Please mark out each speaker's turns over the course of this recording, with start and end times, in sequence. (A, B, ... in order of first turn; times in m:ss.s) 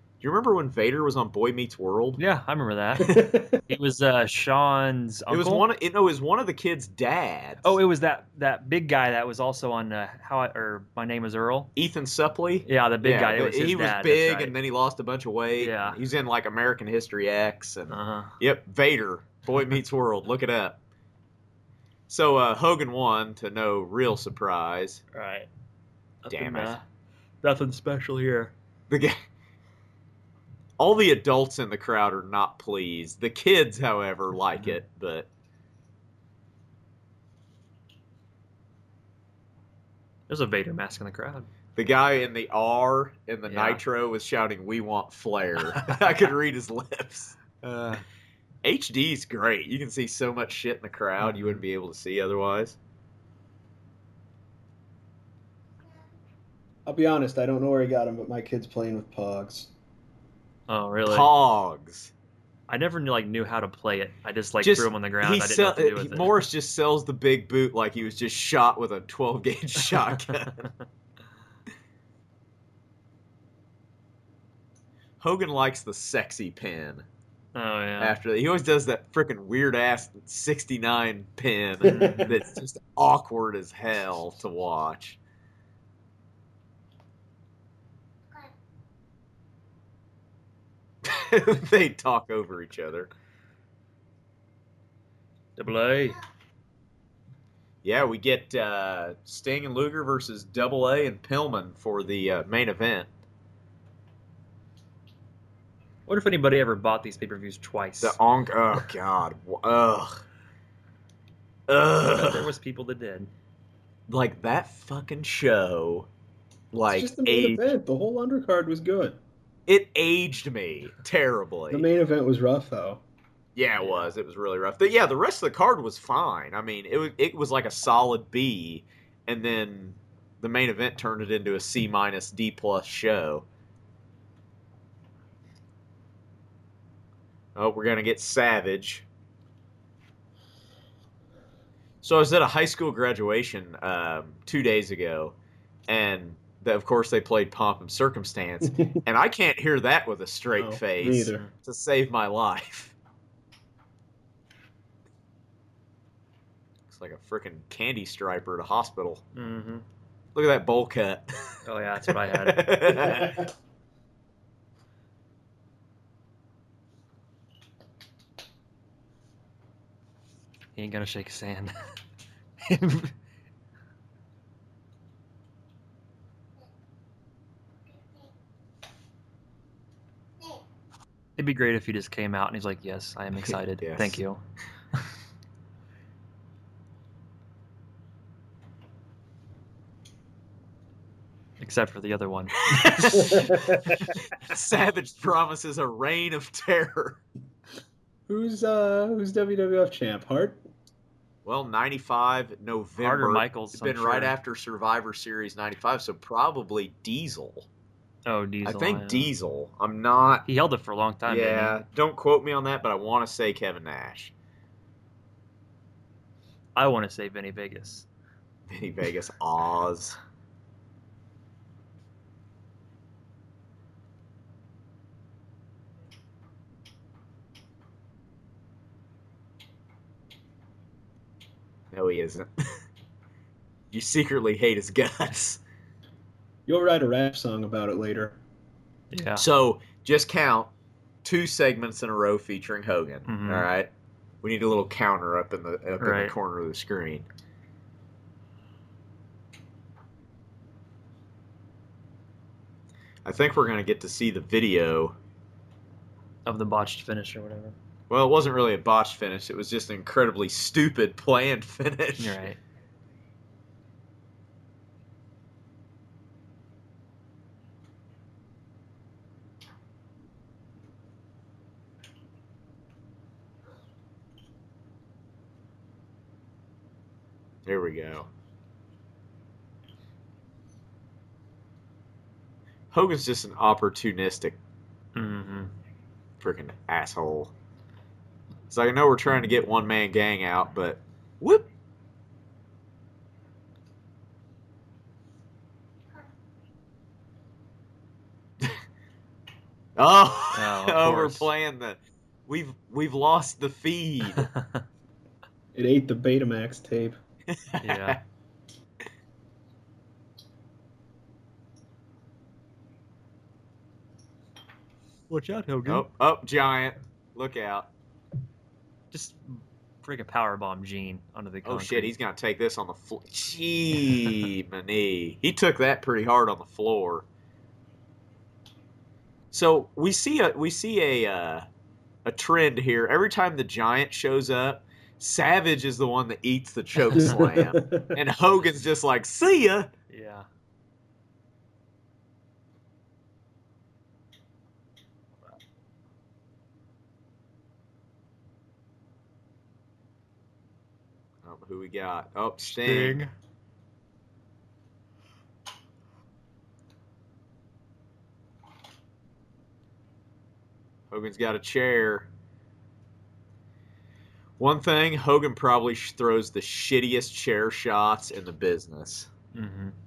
0:00.2-0:02.2 A
0:02.2-0:05.6 B
0:03.0-0:03.6 C
0:05.3-0:07.8 A
0:07.6-0:11.7 B
0:11.8-0:20.8 A
0:12.7-0:14.5 B
0:15.6-0:16.0 B
0:17.9-0:18.4 B
0:22.1-0:25.0 A
0:25.1-0:25.5 B
0:26.2-0:26.8 B
0:26.3-0:26.8 A
0:27.4-0:28.5 B
0:28.9-0:29.2 A
0:30.8-0:35.3 A
0:40.3-0:41.5 B
0:41.8-0:47.4 A
0:43.5-0:43.8 B
0:45.8-0:46.0 B
0:47.6-0:48.0 B
0:48.6-0:52.8 A
0:51.2-0:51.6 B
0:56.9-0:59.7 C
1:00.7-1:01.3 B
1:01.1-1:02.1 A
1:02.7-1:06.4 B
1:04.6-1:10.7 A
1:09.9-1:10.2 B
1:15.2-1:17.0 A
1:17.6-1:18.2 B
1:18.0-1:25.2 A
1:21.8-1:22.3 C
1:21.8-1:22.4 B
1:31.0-1:33.1 A
1:35.6-1:36.2 B
1:37.8-1:43.1 A
1:46.1-1:48.2 B
1:48.0-1:50.2 A
1:51.7-1:52.5 A
1:52.1-1:53.3 B
1:54.1-1:56.1 A
1:56.7-1:57.6 A
1:56.9-1:59.2 C
1:59.7-2:01.9 A
2:01.7-2:03.0 C
2:03.6-2:13.5 A
2:17.6-2:19.0 A
2:22.0-2:25.4 A
2:25.9-2:33.0 A
2:30.6-2:31.5 C
2:31.0-2:31.5 B
2:36.9-2:39.2 A
2:39.4-2:39.8 B
2:40.4-2:43.4 A
2:41.6-2:43.2 B
2:50.8-2:51.8 B
2:52.6-2:53.1 B
3:01.4-3:04.4 B
3:03.4-3:04.2 A
3:11.6-3:13.5 B
3:12.7-3:13.6 A
3:13.2-3:14.0 C
3:14.2-3:17.2 A
3:18.3-3:20.6 C
3:21.4-3:27.7 A
3:23.0-3:24.4 B
3:28.3-3:29.3 B
3:28.6-3:30.5 A
3:30.5-3:31.8 B
3:31.3-3:34.3 A
3:36.8-3:38.1 B
3:38.7-3:40.2 A
3:51.9-3:52.8 A
3:53.9-3:55.6 A
3:56.7-3:58.4 C
3:59.1-3:59.4 B
3:59.4-4:00.7 A
4:01.2-4:03.9 A
4:03.3-4:03.7 B
4:04.4-4:07.3 A
4:06.0-4:06.3 B
4:13.2-4:15.2 A
4:16.5-4:17.8 B
4:18.1-4:22.4 A
4:22.2-4:22.6 B
4:37.7-4:38.3 A
4:42.9-4:44.6 A
4:45.2-4:45.7 B
4:46.4-4:47.5 A
4:48.7-4:51.7 A
5:00.0-5:04.5 A
5:00.5-5:01.5 B
5:04.4-5:04.8 B
5:05.7-5:07.2 C
5:07.5-5:08.2 A
5:07.8-5:08.2 B
5:15.3-5:16.1 B
5:15.8-5:17.9 A
5:19.1-5:22.1 B
5:21.6-5:27.3 A
5:29.5-5:31.7 A
5:32.2-5:39.9 A
5:37.2-5:38.1 C
5:40.1-5:40.5 B
5:51.4-5:53.2 A
5:52.7-5:53.3 B
6:01.1-6:02.3 A
6:04.6-6:09.3 A
6:09.5-6:10.0 B